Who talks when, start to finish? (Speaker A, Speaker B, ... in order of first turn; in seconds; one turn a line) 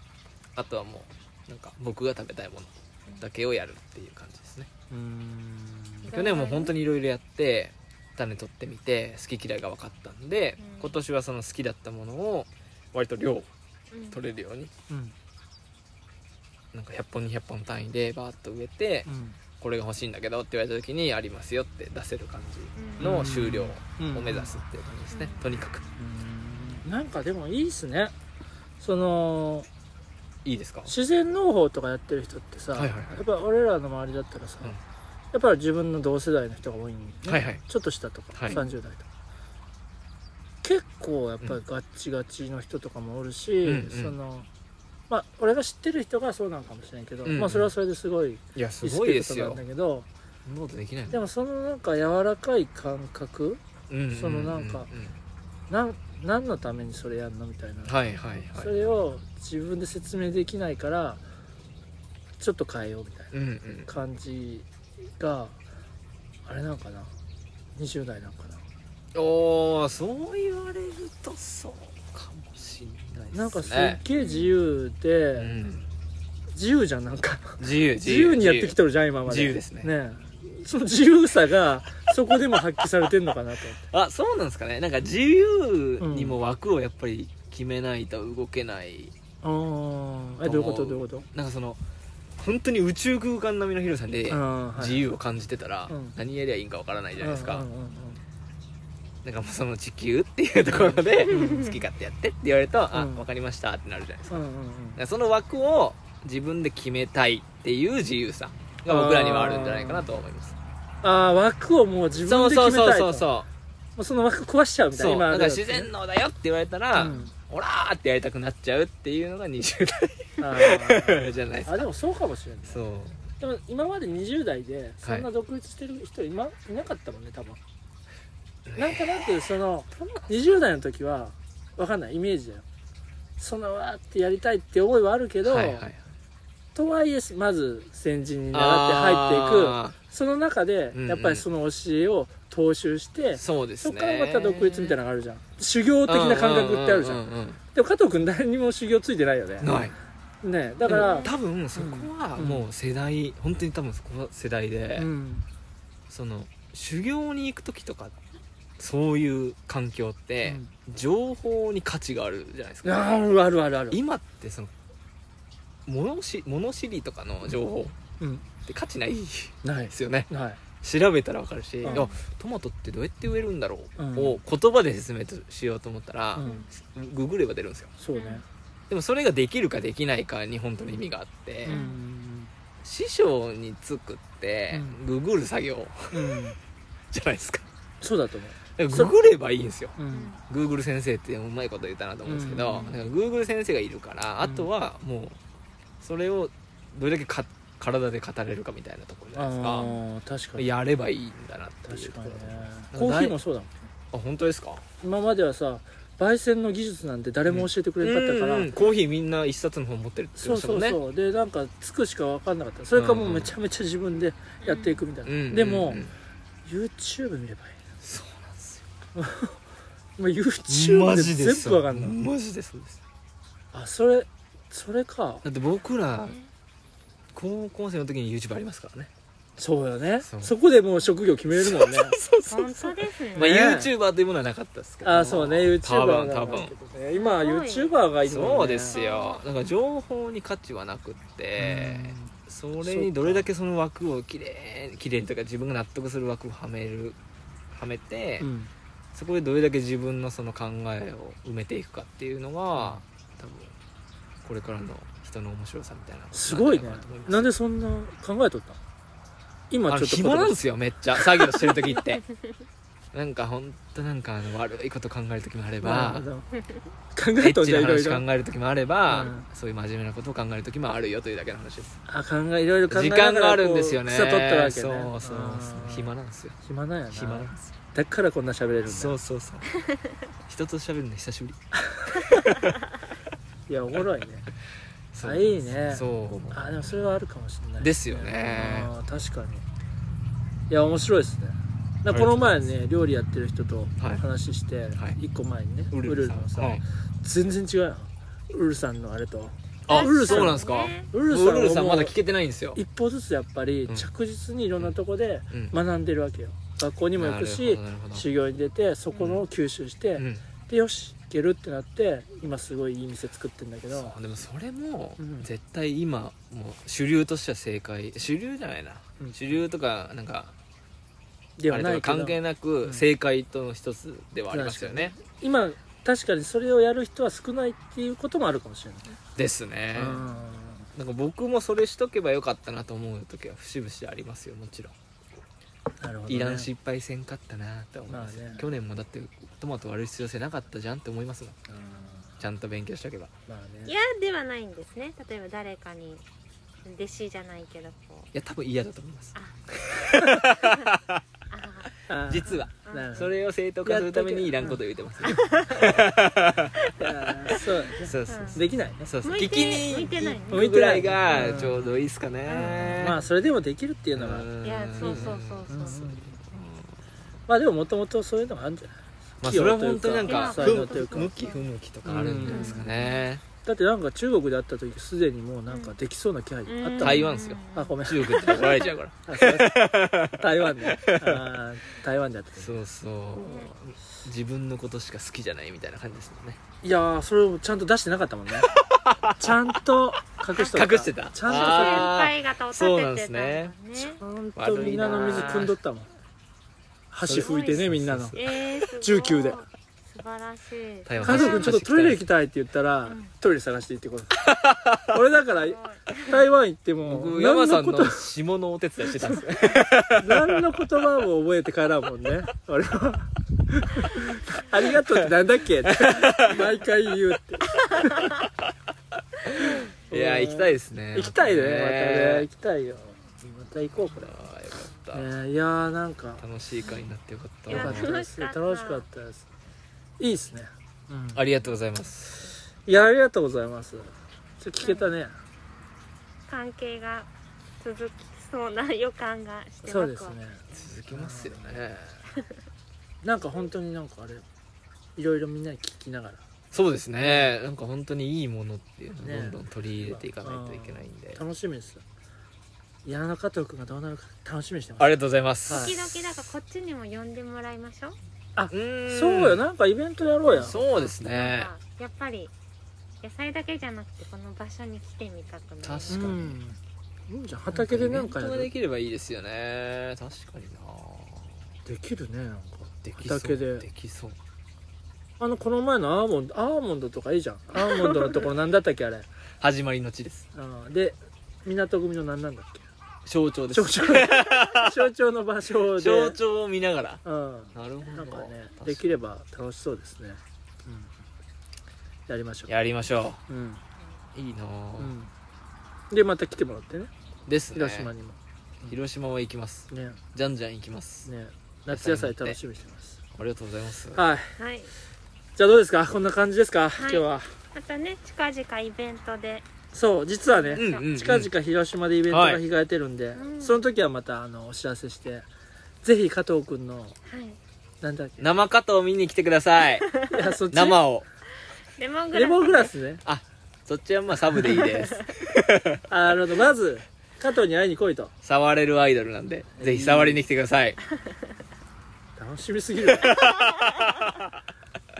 Speaker A: 0.6-4.7
Speaker B: 4.9-6.1
Speaker C: 6.0-6.8
Speaker A: 6.1-13.5
Speaker C: 10.6-11.0
Speaker C: 13.9-14.2
Speaker A: 14.1-14.7
Speaker B: 14.9-15.1
Speaker A: 16.7-19.1
Speaker B: 19.1-19.4
Speaker A: 19.6-25.8
Speaker C: 22.8-23.2
Speaker B: 23.0-24.5
Speaker C: 25.1-25.4
Speaker B: 26.0-28.1
Speaker B: 28.8-29.7
Speaker A: 30.4-30.9
Speaker B: 30.9-34.8
Speaker A: 32.8-33.2
Speaker B: 35.3-39.1
Speaker A: 37.3-37.6
Speaker A: 38.4-38.6
Speaker B: 40.6-44.5
Speaker A: 43.6-44.2
Speaker B: 45.1-50.1
Speaker A: 47.2-47.7
Speaker A: 48.5-49.6
Speaker A: 50.5-51.2
Speaker B: 51.1-54.9
Speaker A: 53.9-55.1
Speaker B: 55.7-58.0
Speaker A: 57.9-59.0
Speaker B: 58.5-61.2
Speaker B: 62.4-63.3
Speaker A: 63.3-63.9
Speaker B: 63.9-65.6
Speaker B: 66.5-67.1
Speaker B: 67.8-68.6
Speaker A: 69.1-74.0
Speaker B: 73.3-75.6
Speaker C: 74.1-74.5
Speaker A: 75.4-75.9
Speaker B: 76.5-83.9
Speaker A: 77.6-79.9
Speaker A: 83.9-89.1
Speaker B: 86.0-86.4
Speaker B: 89.4-91.3
Speaker A: 90.4-91.8
Speaker A: 92.4-97.7
Speaker B: 94.3-95.1
Speaker B: 95.9-96.2
Speaker B: 97.2-98.2
Speaker A: 99.2-104.4
Speaker B: 100.7-101.7
Speaker C: 101.3-101.8
Speaker B: 102.9-103.2
Speaker B: 104.3-105.0
Speaker A: 105.0-110.6
Speaker B: 108.9-110.1
Speaker B: 111.0-113.3
Speaker A: 112.2-113.5
Speaker B: 114.0-115.9
Speaker A: 115.0-121.9
Speaker B: 117.0-117.3
Speaker B: 120.4-122.8
Speaker A: 122.7-123.2
Speaker B: 123.4-127.6
Speaker A: 125.0-125.3
Speaker A: 128.7-129.5
Speaker B: 128.7-132.7
Speaker B: 133.4-135.8
Speaker A: 135.4-136.0
Speaker B: 136.8-147.2
Speaker A: 138.5-140.0
Speaker A: 140.9-141.4
Speaker A: 143.4-145.0
Speaker A: 146.1-147.6
Speaker B: 147.7-149.8
Speaker A: 149.6-150.0
Speaker B: 150.4-152.7
Speaker A: 150.9-155.1
Speaker C: 150.9-151.3
Speaker B: 155.0-155.4
Speaker A: 156.1-158.2
Speaker A: 158.8-163.2
Speaker B: 160.4-160.7
Speaker B: 162.8-164.0
Speaker A: 163.9-164.7
Speaker A: 165.9-168.0
Speaker B: 168.2-168.5
Speaker A: 168.7-177.9
Speaker B: 169.6-170.6
Speaker C: 171.9-172.2
Speaker B: 174.0-174.4
Speaker B: 176.3-176.7
Speaker B: 178.0-178.4
Speaker C: 178.1-178.4
Speaker A: 178.9-181.8
Speaker B: 181.7-182.5
Speaker C: 181.7-182.0
Speaker A: 182.8-186.4
Speaker B: 184.7-185.0
Speaker B: 186.1-186.6
Speaker A: 187.1-187.7
Speaker B: 188.0-189.1
Speaker A: 188.8-190.0
Speaker B: 190.0-190.4
Speaker C: 190.1-190.4
Speaker A: 190.5-195.4
Speaker B: 192.3-192.9
Speaker B: 194.4-194.7
Speaker A: 196.0-199.9
Speaker B: 199.4-200.7
Speaker C: 199.8-200.0
Speaker A: 200.6-203.4
Speaker B: 201.9-203.9
Speaker A: 204.1-204.8
Speaker B: 205.0-208.7
Speaker A: 207.5-211.0
Speaker B: 210.4-216.0
Speaker A: 212.9-213.5
Speaker C: 214.6-215.1
Speaker A: 215.2-216.1
Speaker B: 216.7-217.8
Speaker A: 218.0-218.9
Speaker B: 219.2-219.6
Speaker B: 220.2-222.2
Speaker A: 220.7-223.0
Speaker B: 223.7-225.4
Speaker A: 225.4-226.4
Speaker C: 226.2-226.5
Speaker A: 227.3-229.1
Speaker B: 229.6-232.2
Speaker A: 230.2-230.5
Speaker A: 231.5-236.7
Speaker C: 232.5-233.5
Speaker B: 233.4-233.9
Speaker B: 235.0-239.0
Speaker C: 237.2-237.9
Speaker A: 238.3-247.2
Speaker C: 238.9-239.4
Speaker B: 241.6-243.5
Speaker A: 247.7-248.5
Speaker B: 248.4-248.7
Speaker A: 249.1-253.7
Speaker B: 252.8-253.0
Speaker A: 254.4-257.5
Speaker B: 256.3-258.8
Speaker B: 259.7-260.6
Speaker A: 259.9-262.2
Speaker B: 261.4-261.7
Speaker A: 263.1-266.3
Speaker B: 265.8-266.5
Speaker B: 267.1-268.2
Speaker A: 267.4-272.0
Speaker B: 269.1-269.5
Speaker B: 272.1-279.2
Speaker A: 272.9-276.6
Speaker A: 277.1-277.7
Speaker A: 278.9-279.7
Speaker A: 280.5-281.6
Speaker B: 281.8-282.4
Speaker A: 282.1-282.7
Speaker B: 283.7-284.5
Speaker A: 285.1-286.6
Speaker B: 285.2-289.6
Speaker A: 287.8-288.9
Speaker B: 290.7-302.1
Speaker A: 292.1-292.7
Speaker A: 295.9-296.8
Speaker A: 299.9-302.8
Speaker C: 299.9-301.1
Speaker B: 302.8-314.1
Speaker A: 305.5-305.8
Speaker A: 307.2-308.3
Speaker A: 309.1-309.5
Speaker A: 310.2-310.4
Speaker A: 313.9-320.5
Speaker B: 315.2-315.5
Speaker B: 321.6-323.1
Speaker A: 321.7-325.1
Speaker B: 324.5-329.1
Speaker A: 329.4-330.2
Speaker B: 329.9-330.9
Speaker A: 330.9-334.9
Speaker B: 336.0-336.7
Speaker A: 336.3-341.6
Speaker B: 338.1-338.7
Speaker B: 341.7-342.3
Speaker C: 341.9-342.2
Speaker A: 342.4-343.3
Speaker B: 343.5-343.9
Speaker C: 343.9-346.2
Speaker C: 346.9-348.3
Speaker A: 348.3-351.2
Speaker C: 349.4-350.9
Speaker B: 350.1-350.4
Speaker C: 351.5-351.9
Speaker B: 352.1-354.8
Speaker A: 352.3-356.8
Speaker C: 352.5-353.1
Speaker C: 355.3-355.9
Speaker B: 357.0-359.1
Speaker A: 357.5-363.2
Speaker C: 358.3-358.6
Speaker C: 359.2-360.9
Speaker B: 360.5-361.9
Speaker C: 362.5-363.2
Speaker B: 363.0-366.3
Speaker A: 364.1-367.0
Speaker C: 364.6-366.0
Speaker B: 367.5-371.4
Speaker A: 369.4-373.4
Speaker C: 370.2-371.6
Speaker B: 372.1-372.9
Speaker C: 372.4-373.3
Speaker B: 373.6-379.8
Speaker C: 375.7-376.0
Speaker C: 376.7-378.9
Speaker A: 377.0-381.5
Speaker B: 380.3-382.8
Speaker A: 382.6-386.6
Speaker C: 383.4-383.7
Speaker B: 386.8-388.7
Speaker A: 388.6-389.7
Speaker B: 389.4-392.2
Speaker C: 390.6-390.9
Speaker A: 390.7-393.8
Speaker C: 391.4-394.2
Speaker B: 394.0-396.1
Speaker A: 394.6-395.8
Speaker C: 395.1-395.6
Speaker B: 397.1-398.4
Speaker A: 397.2-398.5
Speaker C: 397.4-401.7
Speaker B: 399.0-399.6
Speaker A: 401.1-402.2
Speaker B: 401.2-404.4
Speaker C: 403.1-403.3
Speaker A: 404.4-405.2
Speaker B: 405.1-408.2
Speaker C: 405.6-406.4
Speaker A: 407.1-410.6
Speaker B: 410.1-418.4
Speaker A: 415.8-416.7
Speaker A: 419.5-422.5
Speaker B: 419.6-424.4
Speaker A: 424.1-425.3
Speaker B: 425.1-426.4
Speaker A: 426.4-428.1
Speaker C: 427.7-429.1
Speaker B: 427.7-429.5
Speaker B: 430.2-431.4
Speaker A: 431.3-432.6
Speaker B: 432.9-435.3
Speaker C: 436.5-437.3
Speaker C: 437.8-440.4
Speaker B: 439.9-441.7
Speaker A: 440.7-442.2
Speaker B: 443.2-444.4
Speaker B: 445.2-446.4
Speaker A: 446.7-451.4
Speaker B: 447.2-447.5
Speaker B: 449.2-452.0
Speaker B: 453.1-455.9
Speaker A: 455.0-456.5
Speaker C: 455.7-458.2
Speaker B: 458.6-460.8
Speaker A: 458.7-459.6
Speaker C: 460.5-462.5
Speaker A: 460.5-461.7
Speaker C: 463.2-466.4
Speaker A: 465.8-466.6
Speaker B: 466.1-468.7
Speaker A: 467.7-471.7
Speaker B: 471.9-473.9
Speaker A: 473.0-474.4
Speaker B: 475.4-479.3
Speaker A: 478.0-478.5
Speaker A: 479.6-480.5
Speaker B: 480.5-482.9
Speaker A: 483.3-485.0
Speaker B: 483.7-486.4
Speaker A: 485.9-487.2
Speaker B: 487.2-491.1
Speaker A: 487.7-489.2
Speaker B: 492.3-492.7
Speaker A: 492.7-493.4
Speaker B: 493.5-493.8
Speaker A: 494.4-495.1
Speaker B: 495.0-495.3
Speaker B: 496.1-497.1
Speaker A: 497.5-498.1
Speaker B: 497.7-499.0
Speaker A: 498.9-501.3
Speaker B: 499.9-500.2
Speaker B: 501.3-503.2
Speaker A: 501.9-502.6
Speaker A: 503.4-504.2
Speaker B: 504.1-504.5
Speaker C: 504.6-504.9
Speaker B: 505.6-507.5
Speaker C: 507.0-509.7
Speaker B: 509.9-515.5
Speaker C: 510.5-511.1
Speaker A: 510.8-511.5
Speaker A: 512.3-512.6
Speaker C: 513.4-513.8
Speaker B: 516.0-517.2
Speaker C: 517.3-517.6
Speaker B: 518.0-518.5
Speaker A: 518.4-520.1
Speaker C: 520.1-520.5
Speaker B: 520.3-521.0
Speaker A: 520.7-521.3
Speaker C: 522.0-522.9
Speaker B: 522.3-523.2
Speaker A: 523.2-526.0
Speaker C: 524.8-525.3
Speaker B: 526.1-528.3
Speaker A: 528.4-531.0
Speaker B: 529.8-530.4
Speaker B: 532.4-533.4
Speaker A: 533.2-534.6